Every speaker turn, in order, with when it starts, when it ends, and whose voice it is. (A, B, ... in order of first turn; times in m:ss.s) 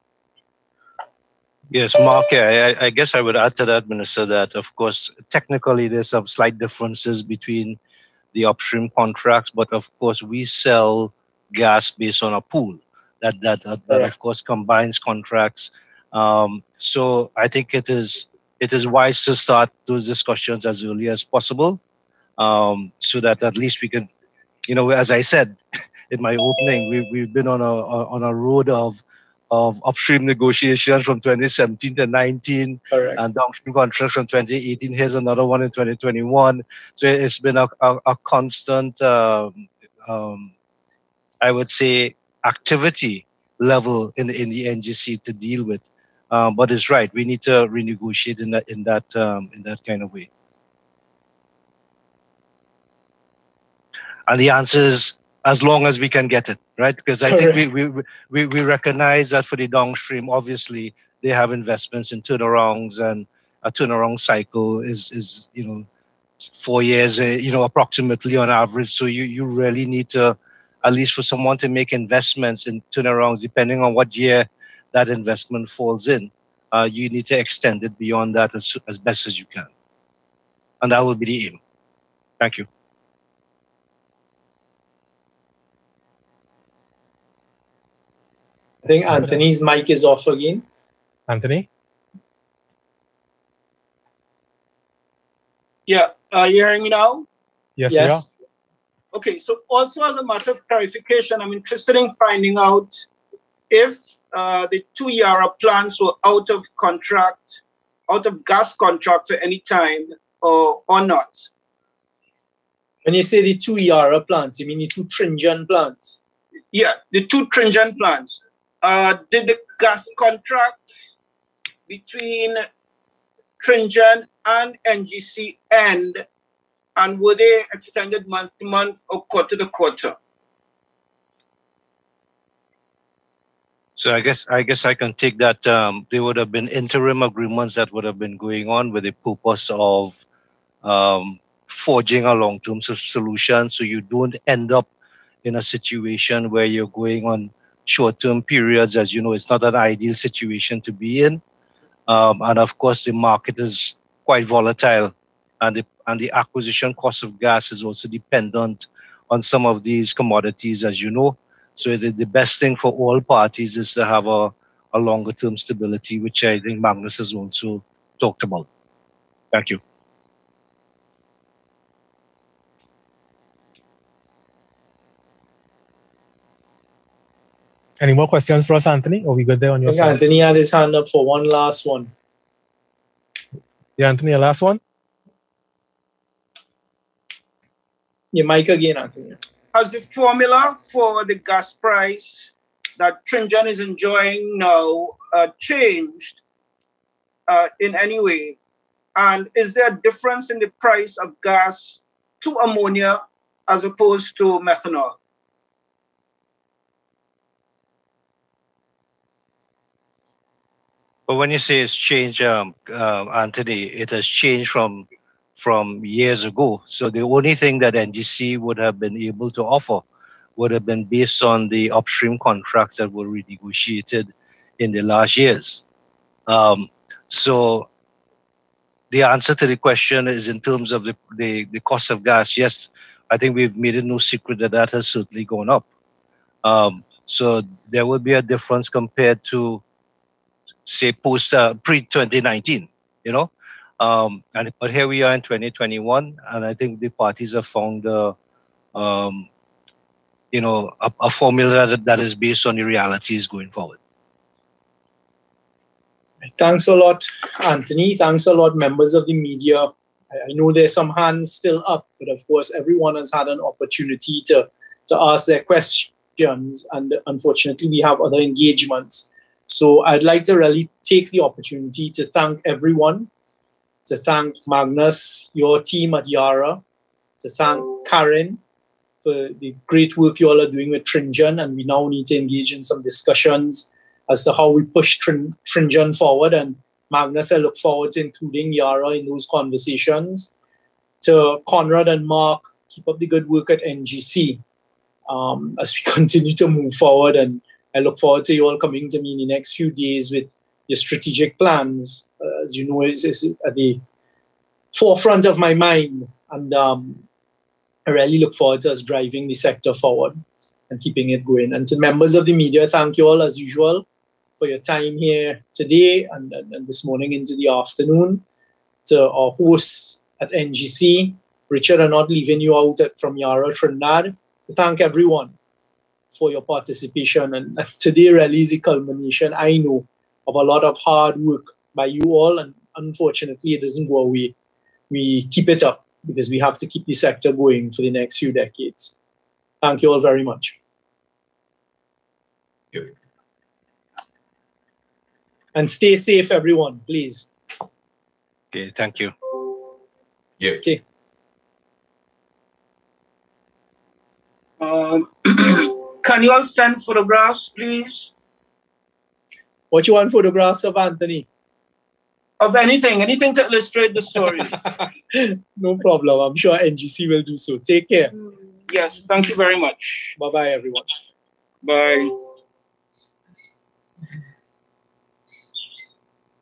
0:01.7-0:07.8 A
0:08.3-0:21.8 A
0:22.4-0:24.1 A
0:24.7-0:25.6 A
0:26.1-0:29.0 A
0:29.5-0:40.5 A
0:32.9-0:33.2 B
0:41.4-0:50.3 A
0:54.3-1:05.8 A
0:57.2-0:57.6 B
1:06.4-1:19.7 A
1:20.8-1:21.6 A
1:22.4-1:22.7 A
1:28.8-1:30.6 B
1:31.3-1:31.7 C
1:35.8-1:37.3 D
1:37.8-1:38.2 C
1:37.9-1:38.2 B
1:39.1-1:43.0 D
1:43.7-1:51.5 D
1:53.0-1:56.2 B
1:56.7-2:01.1 D
2:01.9-2:02.6 D
2:03.6-2:06.2 D
2:07.0-2:10.2 D
2:14.0-2:20.2 A
2:20.8-2:24.9 A
2:25.4-2:31.4 A
2:32.1-2:48.7 A
2:49.5-2:49.8 A
2:58.0-3:00.2 C
2:59.8-3:02.1 B
3:04.0-3:04.8 C
3:08.3-3:09.4 B
3:09.7-3:16.4 D
3:17.5-3:18.6 D
3:19.1-3:25.2 D
3:31.3-3:35.0 A
3:35.6-3:40.0 A
3:40.6-3:45.8 A
3:46.5-3:47.9 A
3:49.1-3:55.8 A
3:56.6-3:59.8 A
4:00.8-4:08.3 A
4:08.9-4:09.5 A
4:10.5-4:14.0 A
4:16.4-4:33.3 B
4:34.1-4:36.8 B
4:37.4-4:38.6 B
4:39.2-4:50.5 B
4:51.2-4:54.6 B
4:55.3-5:04.0 B
5:04.9-5:07.2 B
5:08.0-5:14.0 B
5:14.6-5:18.4 B
5:19.0-5:25.5 B
5:26.3-5:34.5 B
5:35.1-5:39.1 B
5:39.8-5:40.8 B
5:45.7-5:47.5 B
5:48.7-5:49.3 A
5:54.8-5:58.3 D
5:59.9-6:01.4 B
6:02.6-6:04.8 D
6:05.3-6:08.3 B
6:08.9-6:10.3 D
6:10.4-6:11.1 B
6:11.8-6:12.3 D